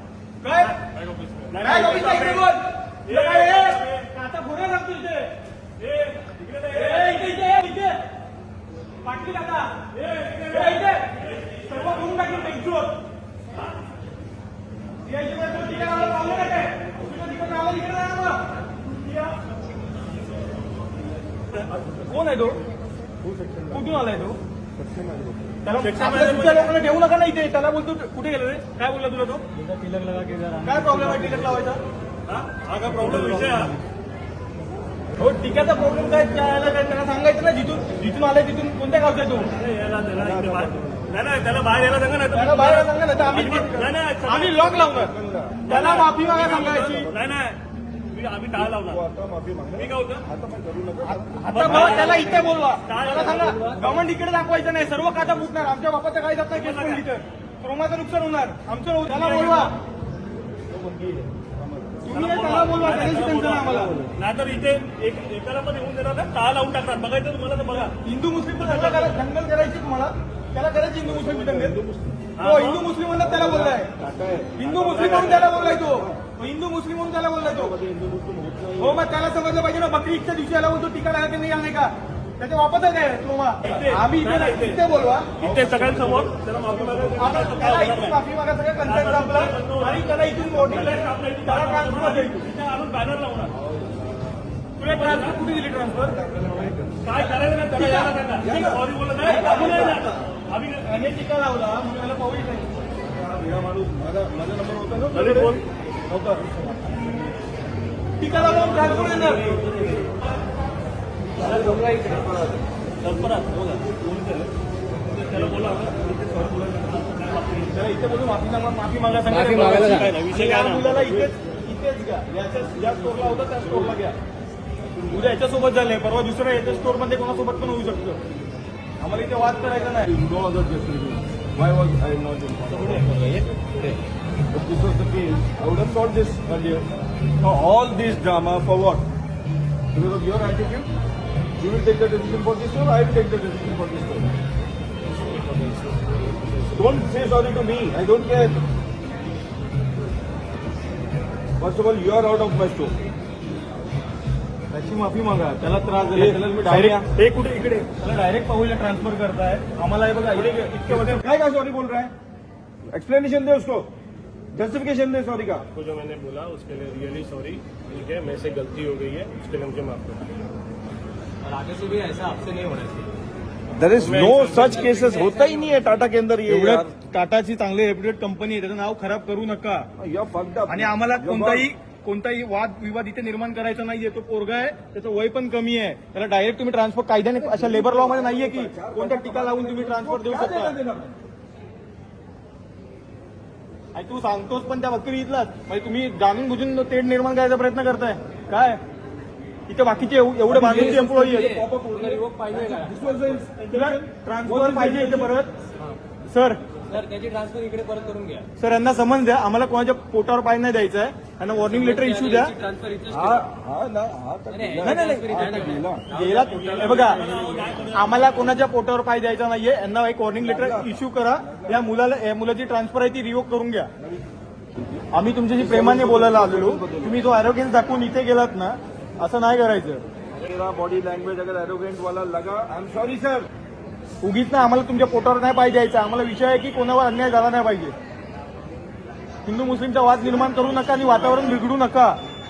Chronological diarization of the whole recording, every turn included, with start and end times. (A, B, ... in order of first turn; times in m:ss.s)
0:00.4-0:00.8 A
0:00.7-0:02.4 B
0:01.6-0:05.3 A
0:03.0-0:04.1 B
0:05.8-0:07.3 B
0:06.7-0:08.0 A
0:09.0-0:09.9 A
0:09.9-0:11.6 B
0:10.4-0:13.0 A
0:15.0-0:18.4 A
0:21.9-0:22.6 A
0:23.2-0:23.8 C
0:23.7-0:24.4 A
0:24.8-0:25.5 C
0:25.6-0:29.4 A
0:25.8-0:26.8 B
0:29.6-0:31.6 D
0:30.6-0:31.8 A
0:32.2-0:33.8 B
0:35.2-0:39.5 A
0:39.6-0:44.7 B
0:40.1-0:41.0 C
0:42.3-0:45.1 A
0:43.3-0:43.9 C
0:44.7-0:47.3 C
0:45.6-0:47.1 A
0:45.7-0:47.6 B
0:48.1-0:49.0 B
0:48.6-0:51.9 C
0:49.8-0:50.2 B
0:51.1-0:59.7 A
0:51.5-0:53.7 B
0:52.0-0:52.5 D
0:53.3-0:53.9 D
0:56.5-0:57.0 B
0:59.1-0:59.7 B
1:00.8-1:02.0 C
1:02.0-1:04.0 A
1:02.1-1:08.0 B
1:03.7-1:04.1 C
1:07.9-1:11.7 A
1:08.6-1:09.2 B
1:11.0-1:12.3 C
1:12.4-1:12.8 B
1:12.4-1:13.9 A
1:13.1-1:16.2 C
1:14.6-1:17.7 A
1:14.9-1:15.6 B
1:17.4-1:19.0 C
1:18.8-1:25.3 A
1:23.6-1:24.8 B
1:25.4-1:28.2 B
1:25.4-1:27.3 C
1:27.2-1:32.5 A
1:28.8-1:33.5 B
1:33.6-1:34.3 C
1:34.8-1:36.2 A
1:34.8-1:35.4 B
1:36.0-1:37.0 C
1:37.0-1:40.8 B
1:37.5-1:40.2 A
1:38.4-1:38.8 C
1:40.8-1:42.7 A
1:43.0-1:46.7 C
1:45.1-1:45.6 B
1:48.2-1:49.5 A
1:48.4-1:50.1 B
1:51.4-1:52.2 B
1:51.4-1:52.6 C
1:51.6-1:52.3 D
1:53.0-1:54.5 B
1:55.1-1:57.8 B
1:57.7-2:04.2 A
1:59.3-2:00.0 D
1:59.5-2:01.2 B
2:05.1-2:08.2 A
2:09.0-2:10.1 A
2:10.1-2:13.1 C
2:12.7-2:14.0 D
2:14.5-2:16.9 C
2:17.4-2:19.0 C
2:19.9-2:20.9 C
2:21.6-2:24.3 C
2:26.7-2:28.6 C
2:31.6-2:32.9 C
2:34.7-2:41.2 A
2:36.1-2:37.1 C
2:40.3-2:42.1 C
2:42.9-2:43.9 C
2:44.5-2:45.6 C
2:45.7-2:50.3 B
2:51.4-2:53.1 D
2:53.7-2:56.9 C
2:53.9-2:55.2 B
2:54.5-2:55.9 D
2:56.5-2:59.9 A
3:00.0-3:01.7 C
3:00.7-3:10.8 A
3:07.4-3:11.2 C
3:13.9-3:18.8 A
3:19.7-3:21.5 A
3:20.5-3:25.3 C
3:20.6-3:23.4 D
3:23.7-3:25.5 A
3:26.3-3:26.6 A
3:26.9-3:28.5 D
3:28.6-3:32.5 A
3:31.6-3:33.4 D
3:33.1-3:36.0 C
3:34.5-3:37.8 D
3:34.8-3:35.2 A
3:36.1-3:37.2 A
3:36.5-3:38.5 B
3:37.9-3:43.9 A
3:40.4-3:41.8 C
3:44.0-3:45.0 C
3:45.1-3:50.0 A
3:45.6-3:47.2 C
3:50.3-3:53.5 C
3:54.2-3:57.9 A
3:59.4-4:02.2 A